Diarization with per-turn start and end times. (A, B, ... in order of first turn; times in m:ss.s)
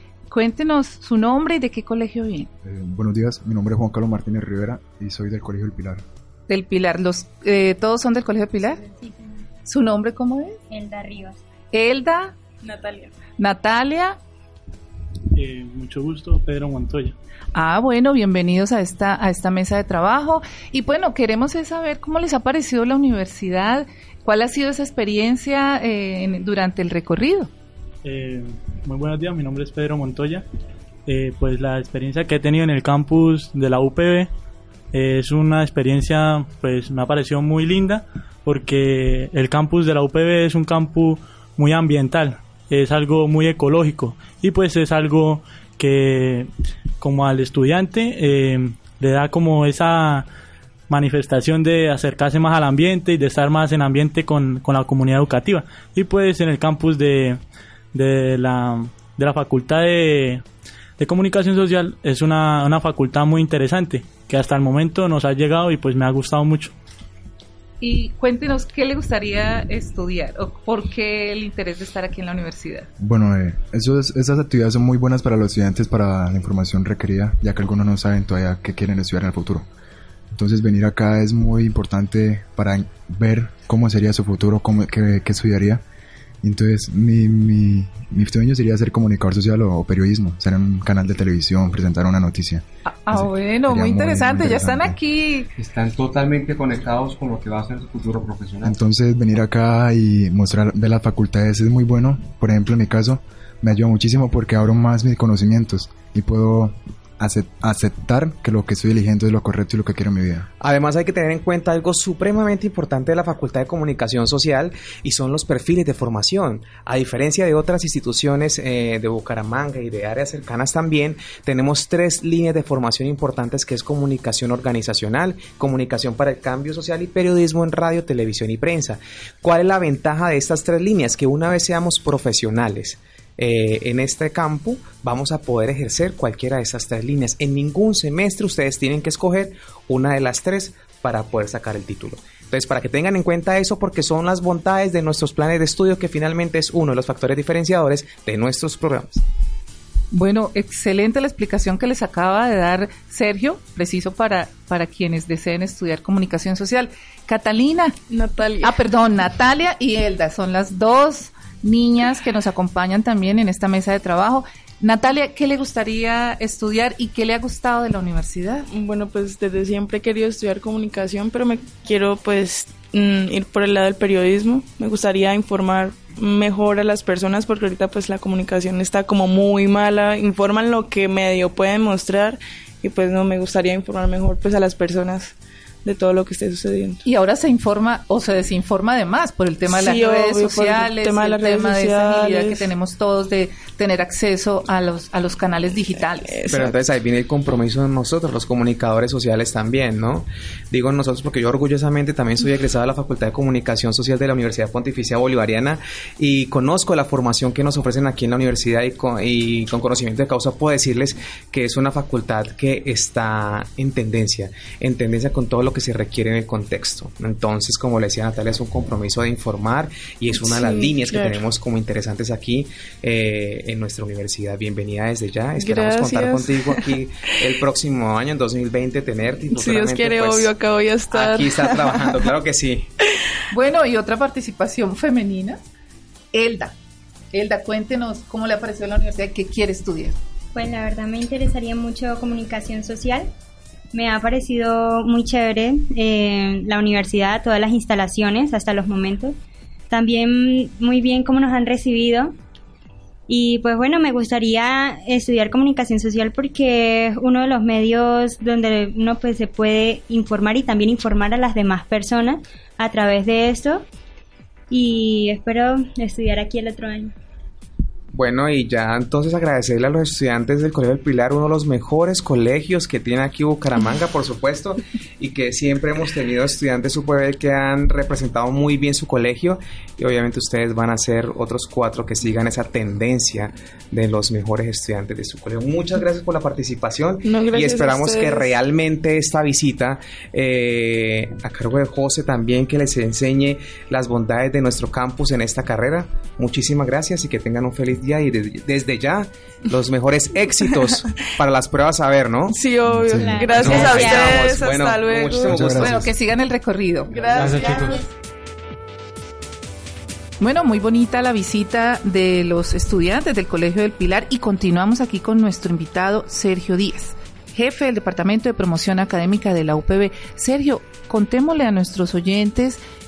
0:00.3-0:02.5 A
0:02.6-0:06.0 B
0:06.5-0:08.8 A
0:08.8-0:09.3 C
0:09.6-0:10.6 A
0:10.7-0:11.4 C
0:11.7-0:12.3 A
0:12.6-0:13.1 D
0:13.4-0:14.2 A
0:15.3-0:17.2 E
0:17.5-0:27.5 A
0:28.0-0:30.4 E
0:31.0-0:34.3 E
0:34.9-0:46.5 E
0:47.0-0:50.3 E
0:50.9-0:57.4 E
0:57.9-1:00.4 E
1:01.0-1:06.7 E
1:07.8-1:12.9 A
1:13.0-1:19.6 B
1:20.3-1:25.8 B
1:26.4-1:35.0 B
1:32.8-1:35.5 A
1:35.6-1:38.7 F
1:38.6-1:50.5 B
1:50.6-2:29.2 G
2:30.1-2:38.0 A
2:38.1-2:38.8 D
2:38.6-2:48.7 A
2:48.7-3:07.0 D
3:07.0-3:16.5 A
3:09.7-3:12.7 D
3:16.2-3:16.8 D
3:16.5-3:50.5 G
3:40.3-3:41.4 D
3:45.6-3:47.0 D
3:49.5-3:52.2 D
3:51.1-3:52.9 G
3:53.5-3:55.6 A
3:56.3-3:56.7 A
3:57.3-4:00.2 A
4:00.5-4:03.3 C
4:03.9-4:09.4 C
4:09.9-4:12.3 C
4:13.3-4:23.8 C
4:24.7-4:27.1 C
4:28.1-5:02.6 G
4:47.2-4:48.5 D
5:02.5-5:05.7 D
5:02.9-5:03.4 B
5:03.2-5:04.4 C
5:03.5-5:06.1 G
5:05.5-5:06.0 B
5:05.7-5:08.0 A
5:07.1-5:08.0 D
5:07.3-5:08.0 F
5:10.4-5:22.8 A